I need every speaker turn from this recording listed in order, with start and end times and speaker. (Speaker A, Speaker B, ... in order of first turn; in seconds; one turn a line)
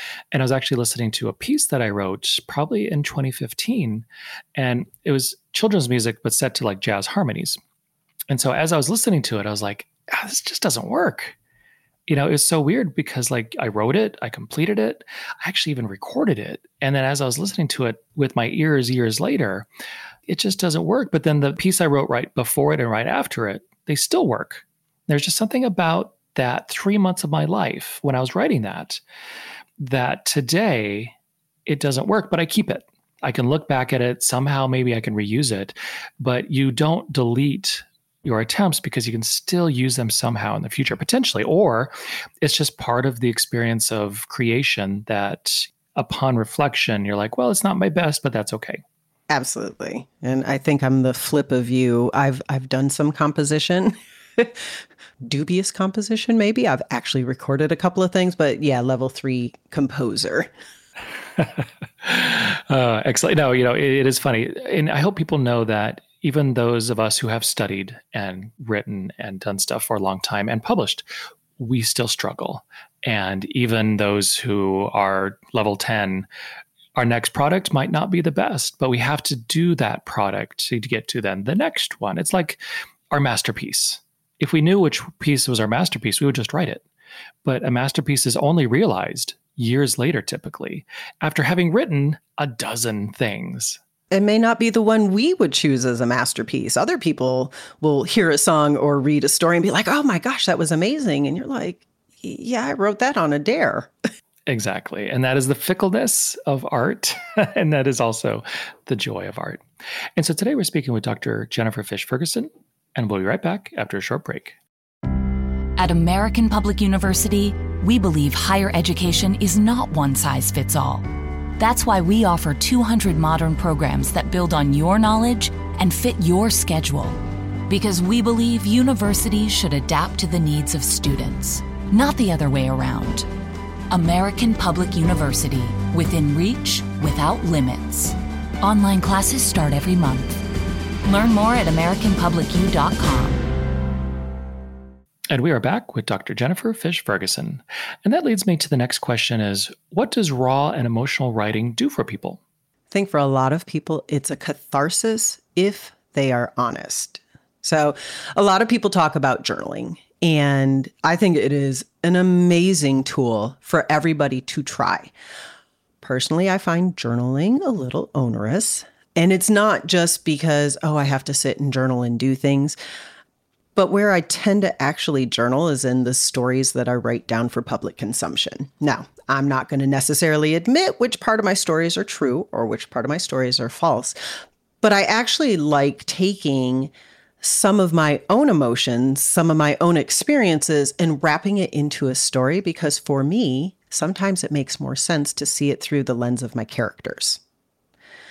Speaker A: 0.3-7.6
Speaker A: 8.3-11.4
Speaker A: 12.1-19.7
Speaker A: 20.3-29.0
Speaker A: 29.8-31.1
Speaker A: 31.7-48.8
Speaker B: 49.3-54.6
Speaker B: 55.2-60.5
Speaker A: 61.4-71.1
Speaker A: 71.6-76.3
Speaker A: 77.0-86.8
Speaker A: 87.4-93.8
Speaker B: 94.1-103.9
Speaker A: 104.5-109.6
Speaker A: 110.2-114.6
Speaker C: 115.8-121.1
Speaker C: 121.6-133.3
Speaker C: 133.9-140.4
Speaker C: 141.1-143.5
Speaker A: 145.3-152.4
Speaker B: 152.9-165.1
Speaker B: 166.0-172.8
Speaker B: 173.8-184.2
Speaker B: 184.8-197.4